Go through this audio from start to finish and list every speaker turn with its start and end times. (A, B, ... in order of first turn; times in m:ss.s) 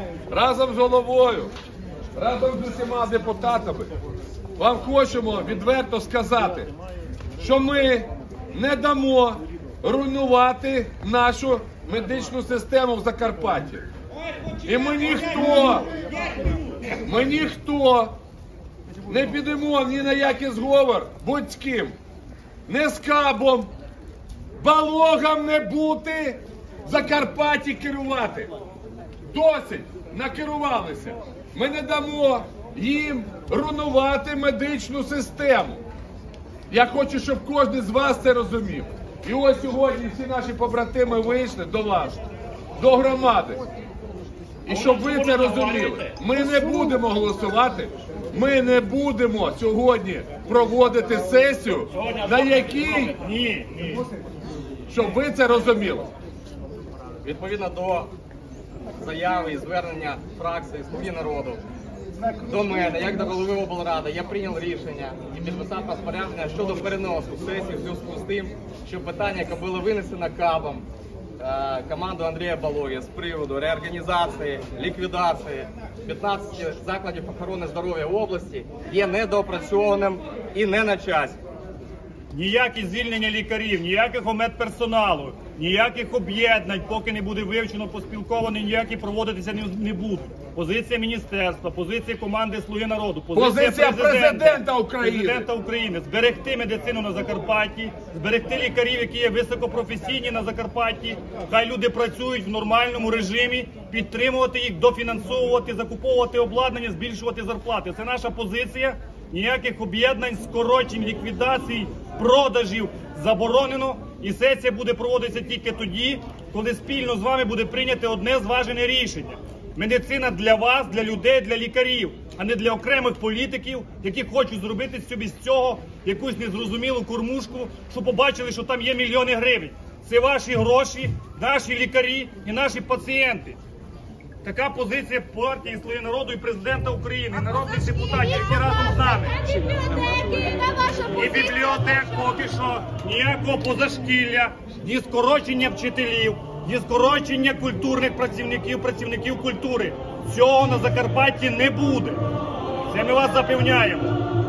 0:00.3-0:01.5 A
0:02.2-0:03.9 A
0:04.6-0:06.7 A
0:07.4-0:13.9 A
0:14.6-0:15.9 A
0:17.0-0:18.1 A
0:19.1-0:21.9 A
0:22.7-0:23.7 A
0:24.6-0:28.5 A
0:29.3-0:35.8 A
0:36.7-0:42.2 A
0:42.8-0:43.6 A
0:44.6-0:53.2 A
0:44.7-0:46.2 B
0:52.0-0:54.1 B
0:54.9-0:56.1 A
0:57.2-0:58.1 C
0:59.0-1:01.6 C
1:02.4-1:10.9 C
1:11.4-1:21.4 C
1:22.3-2:13.6 B
1:33.3-1:35.5 A
2:14.4-2:32.2 B
2:32.9-2:34.2 B